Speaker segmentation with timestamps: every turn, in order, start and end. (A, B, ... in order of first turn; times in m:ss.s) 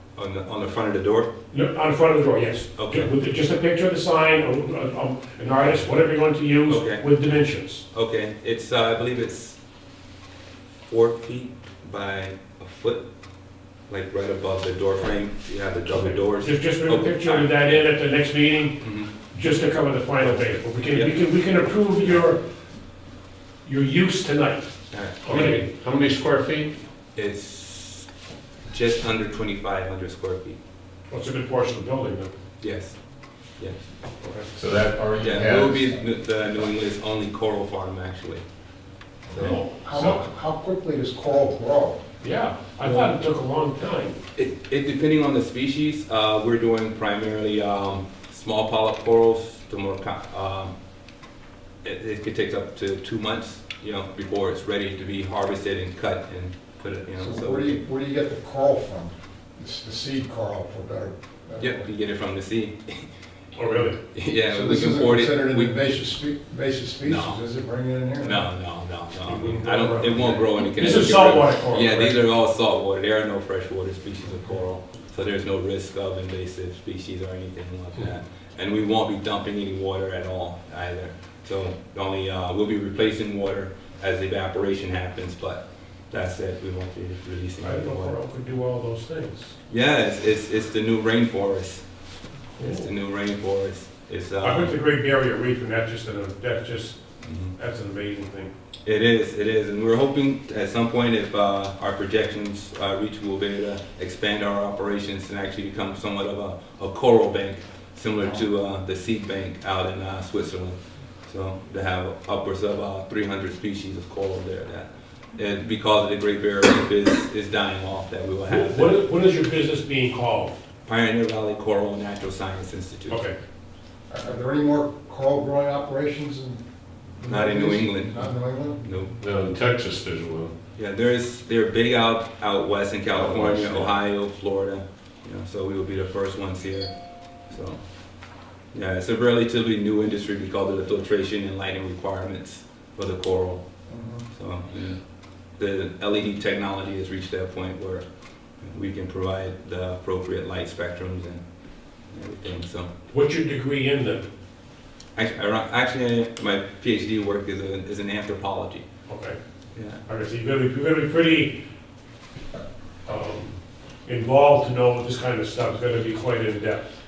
0:00.2-0:01.3 A
0:01.5-0:07.8 B
0:02.8-0:03.1 A
0:06.7-0:07.0 A
0:07.9-0:09.6 A
0:10.9-0:13.0 A
0:13.9-0:17.8 A
0:15.9-0:22.4 B
0:18.8-0:19.1 A
0:23.6-0:24.7 B
0:24.9-0:25.5 A
0:25.2-0:25.6 B
0:25.3-0:26.8 C
0:27.2-0:28.1 A
0:28.7-0:30.6 A
0:31.1-0:32.3 B
0:32.6-0:33.0 A
0:34.2-0:34.5 B
0:34.5-0:35.9 C
0:35.2-0:38.4 A
0:39.3-0:42.0 D
0:39.3-0:39.6 A
0:39.4-0:40.2 B
0:42.2-0:44.2 B
0:42.8-0:43.2 A
0:44.3-0:50.7 A
0:51.8-0:57.8 A
0:57.2-1:01.8 D
1:01.6-1:03.1 A
1:03.6-1:04.0 B
1:04.1-1:05.7 A
1:04.5-1:08.5 D
1:07.0-1:07.4 A
1:08.2-1:28.1 A
1:09.2-1:12.2 B
1:27.6-1:29.5 B
1:29.7-1:31.8 A
1:32.6-1:32.9 B
1:32.6-1:34.7 A
1:34.4-1:37.0 B
1:37.2-1:37.5 A
1:37.5-1:38.5 B
1:38.8-1:59.0 A
1:58.4-2:00.6 B
2:00.8-2:03.2 A
2:03.1-2:03.4 B
2:04.1-2:06.6 D
2:07.1-2:08.8 D
2:07.3-2:09.1 A
2:09.2-2:10.5 C
2:10.8-2:16.9 A
2:13.2-2:13.9 C
2:17.5-2:17.8 A
2:18.7-2:23.6 A
2:23.9-2:24.2 D
2:24.3-2:25.0 A
2:25.6-2:28.0 A
2:28.6-2:31.4 A
2:32.1-2:32.9 A
2:33.1-2:34.3 B
2:35.2-2:38.8 A
2:39.1-2:39.4 B
2:39.7-2:40.0 A
2:40.0-2:41.6 B
2:43.1-2:46.8 B